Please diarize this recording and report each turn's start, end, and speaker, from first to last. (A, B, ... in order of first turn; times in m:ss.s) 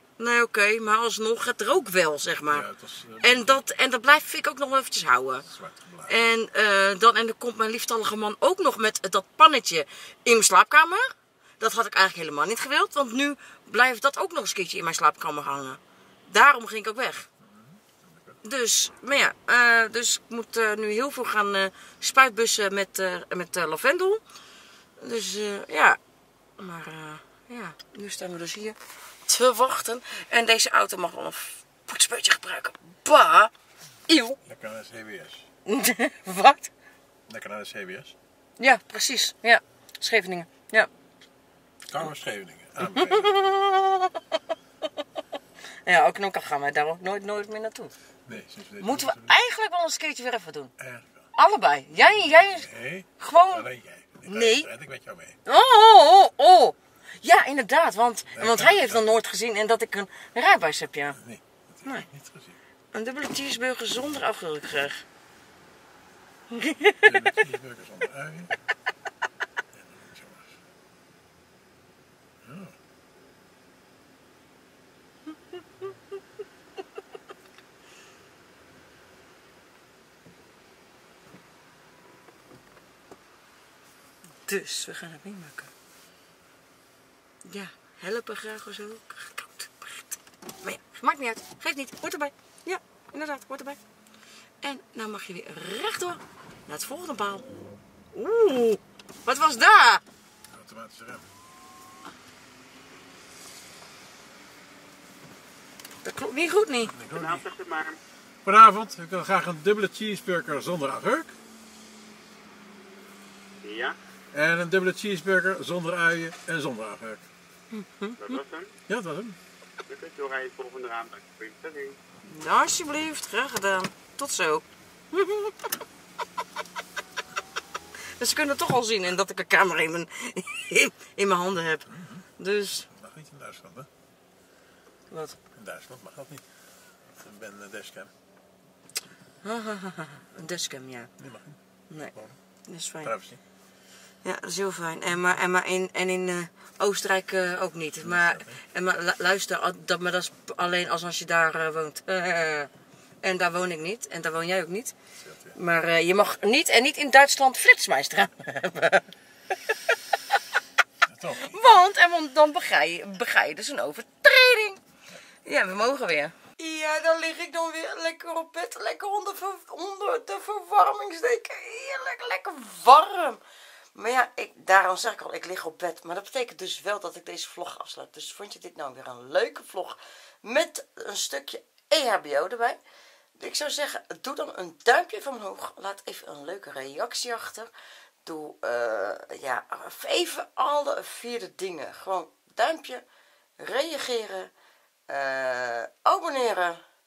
0:00.2-0:02.7 A
0:02.4-0:03.6 B
0:03.2-0:05.5 A
0:05.4-0:06.3 B
0:06.0-0:17.3 A
0:17.4-0:18.4 B
0:18.4-0:24.2 A
0:25.0-0:26.0 A
0:26.6-0:33.5 A
0:34.1-0:34.4 A
0:34.4-0:35.5 B
0:35.6-0:36.7 A
0:37.3-0:38.2 B
0:38.6-0:40.9 A
0:41.8-0:43.5 B
0:42.8-0:44.2 A
0:45.8-0:47.9 A
0:48.2-0:49.3 B
0:48.8-0:50.7 A
0:50.8-0:51.3 B
0:51.4-0:52.7 A
0:52.3-0:55.4 B
0:53.2-0:53.7 A
0:54.2-0:54.7 A
0:55.4-1:01.2 A
0:58.3-0:59.0 B
1:01.1-1:02.6 B
1:02.9-1:05.0 A
1:06.5-1:07.2 A
1:07.0-1:08.5 B
1:09.7-1:10.6 B
1:12.4-1:12.8 B
1:24.4-1:25.7 A
1:27.4-1:33.8 A
1:34.6-1:37.5 A
1:38.1-1:40.0 A
1:40.5-1:41.3 B
1:46.0-1:46.9 A
1:46.8-1:47.5 B
1:47.1-1:48.0 C
1:48.4-1:51.4 B
1:53.6-1:54.0 C
1:54.3-1:57.3 B
1:57.7-1:58.2 A
1:58.2-1:58.7 C
1:58.9-1:59.4 B
1:59.9-2:01.9 C
2:02.2-2:05.5 A
2:08.0-2:12.9 A
2:11.9-2:12.2 B
2:12.9-2:13.9 B
2:15.1-2:15.4 A
2:15.5-2:18.1 B
2:19.4-2:21.1 A
2:21.2-2:22.4 B
2:22.6-2:23.1 A
2:23.0-2:23.4 B
2:24.2-2:32.7 A
2:28.0-2:28.6 B
2:33.2-2:34.9 A
2:35.2-2:35.6 B
2:35.5-2:39.1 A
2:41.0-2:41.8 B
2:41.4-2:44.8 A
2:45.4-2:53.4 A
2:53.9-3:02.8 A
3:03.4-3:07.7 A
3:08.2-3:13.0 A
3:13.6-3:14.5 A
3:15.1-3:16.8 A